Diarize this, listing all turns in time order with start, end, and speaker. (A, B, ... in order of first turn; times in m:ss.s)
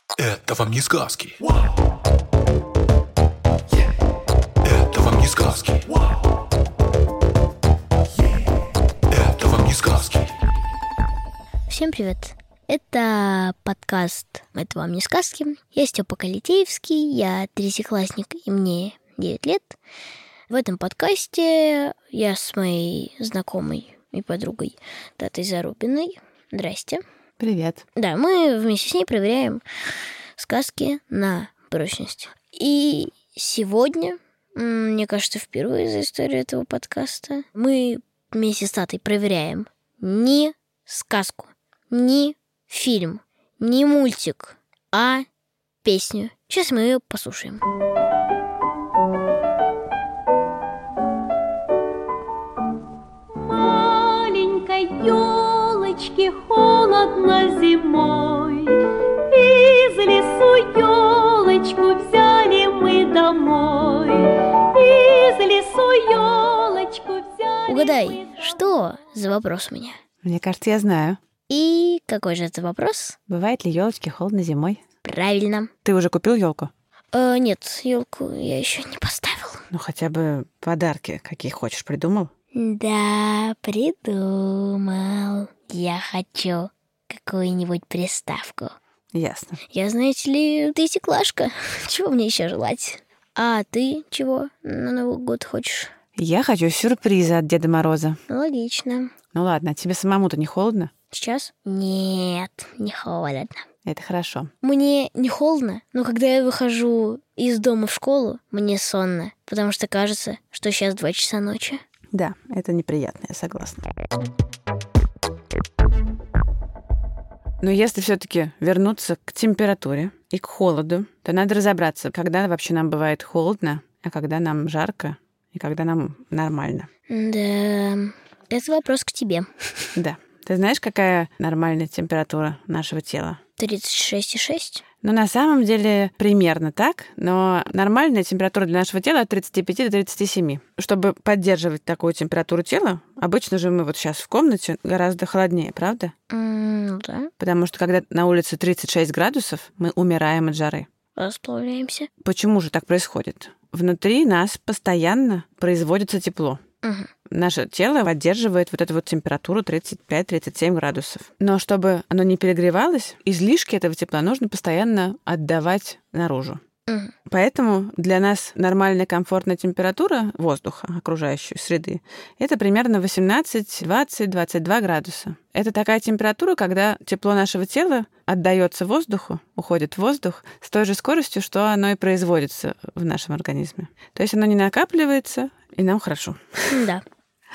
0:00.2-0:01.5 A
0:04.6-0:06.0 A
0:09.1-0:10.3 A
0:11.7-0:19.8 B
0:20.5-0:27.0 B
0:27.4-0:27.8 C
0:28.0-0:29.6 B
0:30.4-0:45.3 B
0:45.8-0:47.6 B
0:53.4-1:08.1 D
1:07.7-1:10.0 B
1:10.2-1:11.2 C
1:11.5-1:13.2 B
1:13.3-1:14.8 C
1:15.0-1:15.7 B
1:15.8-1:16.7 C
1:17.1-1:19.6 B
1:19.7-1:22.3 C
1:22.5-1:28.8 B
1:29.1-1:29.6 C
1:29.7-1:35.9 B
1:36.2-1:38.2 C
1:38.3-1:39.1 B
1:39.3-1:40.9 C
1:41.1-1:43.6 B
1:43.8-1:44.5 C
1:44.6-1:51.8 B
1:52.1-1:53.9 C
1:57.6-2:06.9 C
2:07.1-2:09.9 B
2:10.0-2:13.4 C
2:13.6-2:14.8 B
2:15.0-2:26.1 C
2:26.3-2:27.3 B
2:27.4-2:30.9 C
2:31.2-2:32.1 B
2:32.2-2:36.6 C
2:36.8-2:37.1 B
2:37.3-2:46.6 C
2:46.9-2:47.1 B
2:47.3-3:06.9 C
3:06.7-3:07.0 B